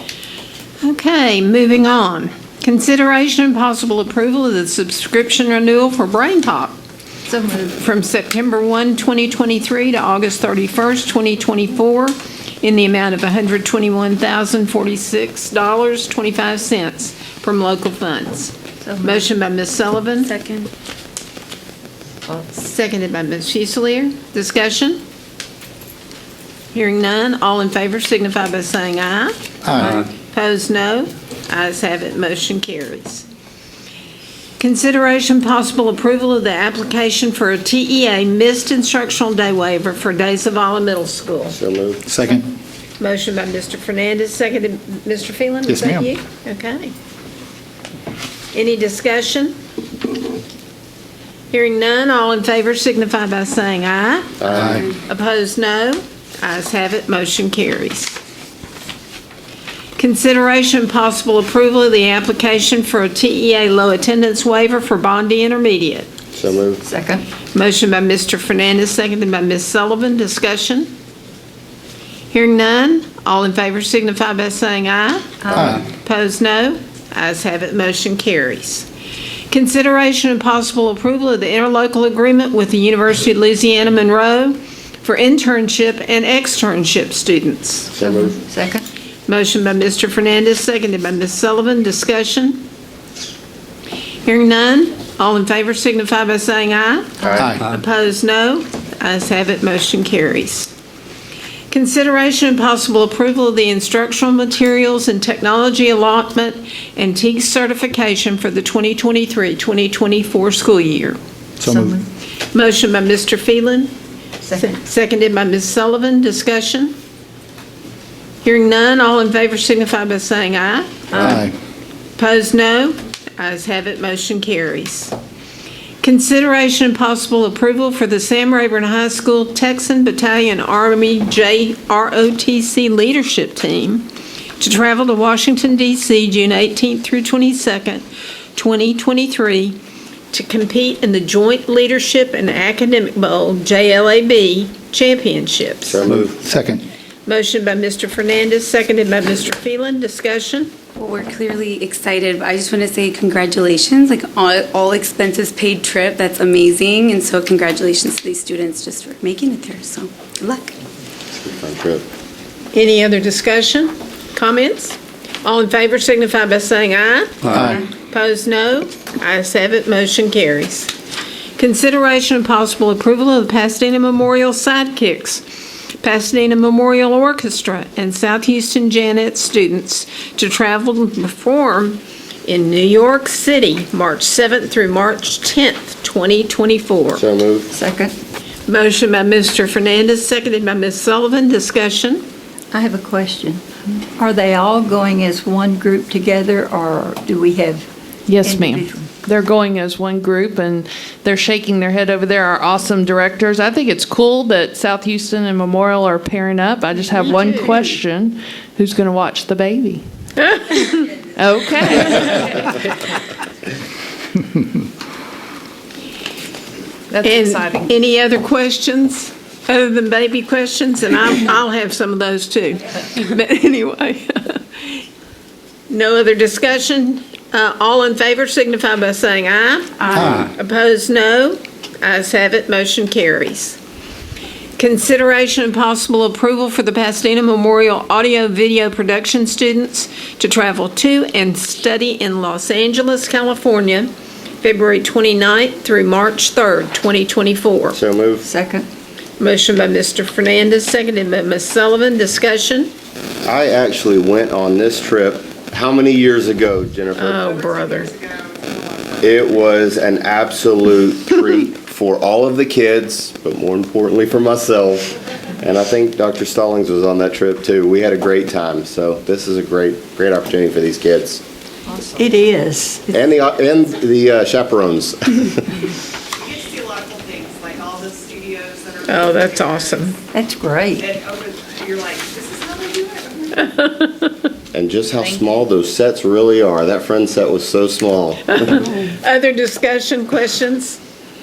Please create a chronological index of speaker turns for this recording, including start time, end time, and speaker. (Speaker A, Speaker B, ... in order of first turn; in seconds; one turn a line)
Speaker A: 0.8-6.8
Speaker B: 7.3-7.8
Speaker A: 7.8-20.4
Speaker B: 18.8-19.2
Speaker C: 20.3-20.6
Speaker A: 22.3-25.0
Speaker A: 26.7-33.2
Speaker D: 29.6-30.1
Speaker A: 34.6-41.5
Speaker E: 41.5-42.0
Speaker D: 42.0-42.5
Speaker A: 43.0-46.9
Speaker D: 45.6-46.1
Speaker A: 48.5-49.5
Speaker A: 51.5-58.2
Speaker E: 54.4-54.8
Speaker D: 54.5-54.9
Speaker A: 60.0-66.1
Speaker E: 66.3-66.8
Speaker B: 66.8-67.3
Speaker A: 67.5-70.9
Speaker A: 72.3-78.9
Speaker B: 75.4-75.8
Speaker D: 75.5-75.8
Speaker A: 79.5-87.9
Speaker E: 87.9-88.3
Speaker B: 88.0-88.8
Speaker A: 89.3-92.6
Speaker A: 94.2-100.7
Speaker D: 97.3-97.6
Speaker A: 101.7-111.2
Speaker B: 111.6-112.1
Speaker D: 111.6-111.9
Speaker A: 112.5-113.9
Speaker B: 114.4-114.7
Speaker A: 114.5-116.9
Speaker A: 118.4-121.4
Speaker D: 121.1-121.5
Speaker A: 122.2-125.1
Speaker A: 126.0-134.1
Speaker A: 134.6-138.0
Speaker A: 138.6-139.8
Speaker A: 140.3-146.0
Speaker E: 145.8-146.4
Speaker D: 146.1-146.8
Speaker A: 147.2-150.7
Speaker C: 151.0-160.8
Speaker E: 161.3-162.0
Speaker A: 162.7-170.9
Speaker D: 167.5-167.8
Speaker A: 171.6-175.4
Speaker A: 176.0-187.2
Speaker E: 187.1-187.7
Speaker B: 187.7-188.1
Speaker A: 188.7-192.2
Speaker B: 192.7-193.6
Speaker B: 194.2-197.9
Speaker F: 198.3-210.0
Speaker B: 198.4-199.1
Speaker F: 210.9-212.7
Speaker F: 217.1-217.9
Speaker A: 217.2-225.0
Speaker A: 225.9-233.8
Speaker D: 230.1-230.5
Speaker A: 234.8-248.0
Speaker E: 247.9-248.4
Speaker B: 248.4-248.9
Speaker A: 249.4-252.9
Speaker E: 253.4-257.5
Speaker A: 257.2-258.1
Speaker G: 257.4-259.3
Speaker E: 259.2-271.4
Speaker B: 272.1-273.2
Speaker E: 273.1-275.9
Speaker G: 276.4-280.1
Speaker A: 279.1-280.1
Speaker B: 280.3-281.1
Speaker G: 281.0-283.7
Speaker E: 284.7-288.9
Speaker A: 288.9-291.0